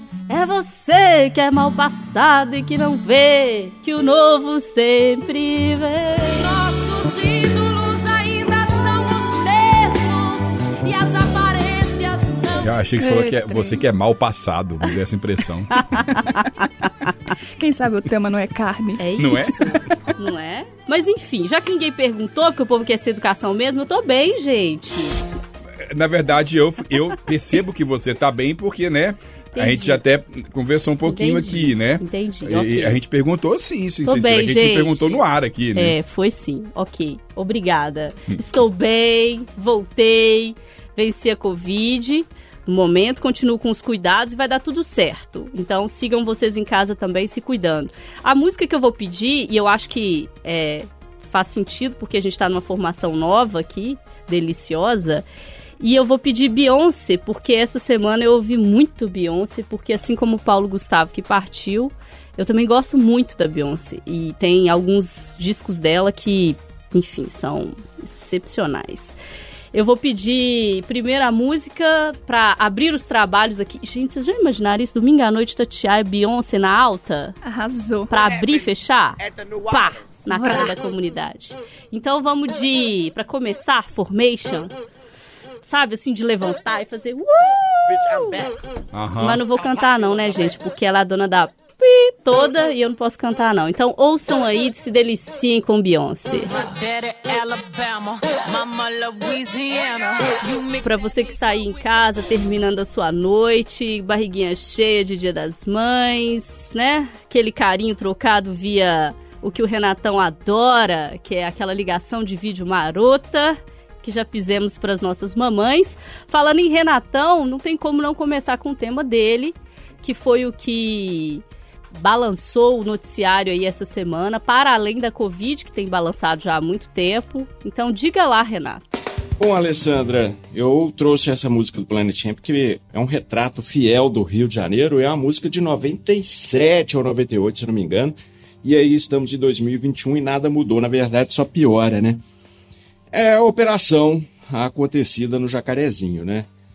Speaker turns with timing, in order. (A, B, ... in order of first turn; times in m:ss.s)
0:00.3-0:06.5 A
0:06.3-0:12.7 B
0:12.6-0:16.1 C
0:13.0-0:13.8 D
0:15.8-0:16.4 A
0:17.6-0:19.0 D
0:19.0-0:25.2 A
0:19.2-0:19.8 C
0:25.9-0:36.0 C
0:29.6-0:30.0 A
0:31.0-0:33.0 A
0:34.0-0:35.2 A
0:35.8-0:55.2 A
0:55.8-1:09.2 A
1:09.7-1:17.4 A
1:17.4-1:18.3 D
1:18.1-1:24.7 A
1:20.3-1:20.7 D
1:25.6-1:28.5 A
1:28.9-1:29.4 C
1:29.2-1:36.5 A
1:36.5-1:40.9 B
1:40.8-2:08.8 A
2:09.4-2:22.2 E
2:23.1-2:26.5 E